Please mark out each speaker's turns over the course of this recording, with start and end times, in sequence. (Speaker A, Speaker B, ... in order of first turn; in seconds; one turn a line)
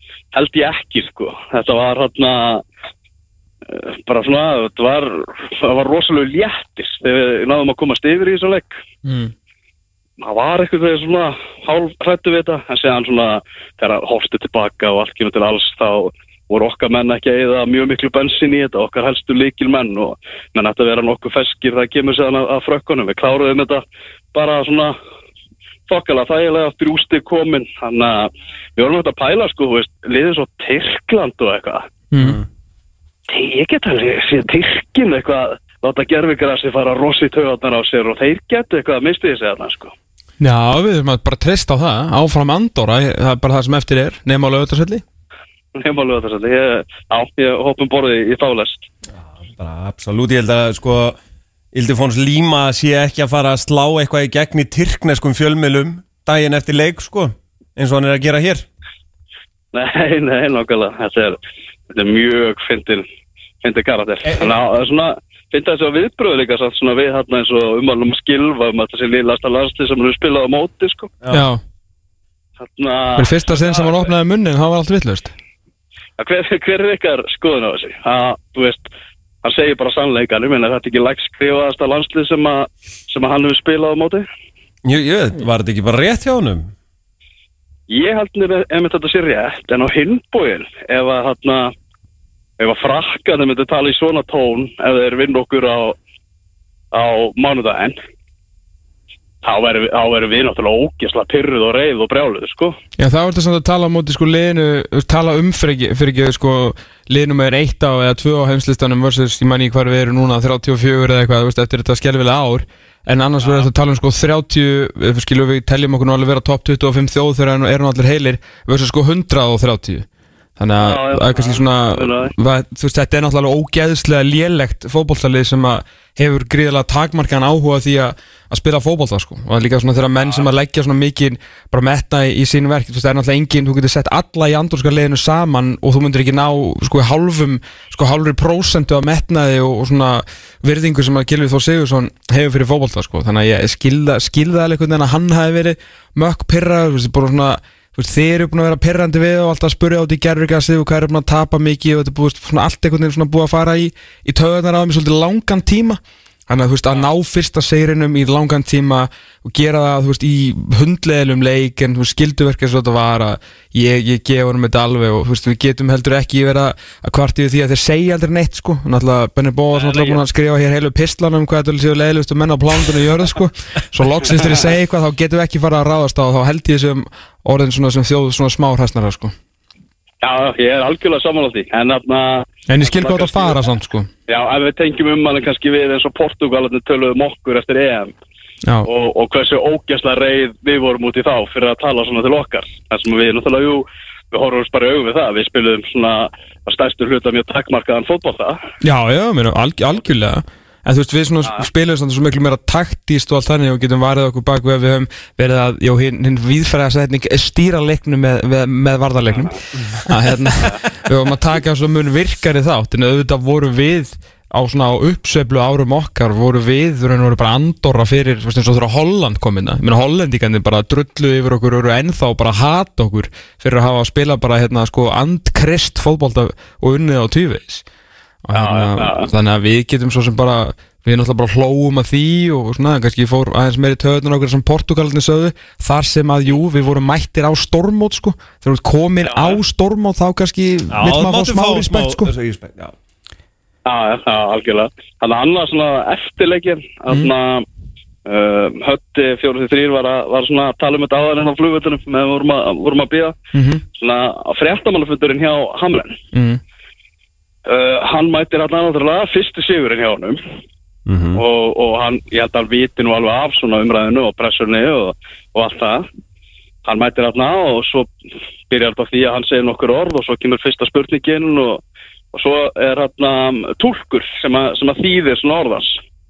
Speaker A: 0.3-2.6
Speaker A: 3.7-8.8
Speaker B: 9.1-9.3
Speaker A: 10.2-23.8
Speaker A: 24.3-25.0
Speaker A: 25.9-31.9
Speaker B: 32.1-32.4
Speaker C: 32.2-32.4
Speaker A: 33.3-40.0
Speaker B: 40.4-45.0
Speaker A: 45.8-48.9
Speaker C: 49.4-51.2
Speaker C: 51.7-58.7
Speaker A: 59.7-61.4
Speaker A: 61.9-63.1
Speaker A: 63.6-71.1
Speaker C: 64.2-64.5
Speaker B: 71.3-71.6
Speaker A: 72.6-74.1
Speaker B: 73.2-75.3
Speaker A: 76.2-78.9
Speaker A: 79.4-84.3
Speaker C: 84.8-86.7
Speaker A: 87.9-91.7
Speaker A: 92.6-96.0
Speaker A: 96.9-98.0
Speaker A: 99.4-102.8
Speaker B: 103.0-120.1
Speaker B: 120.6-179.3
Speaker A: 120.8-122.3
Speaker A: 169.8-170.2
Speaker A: 180.2-183.6
Speaker B: 182.7-184.1
Speaker A: 184.3-188.1
Speaker A: 188.8-198.6
Speaker B: 198.8-227.8
Speaker B: 228.4-242.3
Speaker A: 228.5-229.3
Speaker A: 239.2-239.6
Speaker C: 240.9-242.9
Speaker A: 243.9-247.7
Speaker A: 248.3-253.4
Speaker B: 253.5-253.8
Speaker A: 253.9-256.2
Speaker B: 256.3-256.6
Speaker A: 257.7-260.4
Speaker C: 261.1-261.4
Speaker A: 261.4-266.1
Speaker A: 266.9-268.1
Speaker A: 268.7-271.8
Speaker A: 272.3-276.0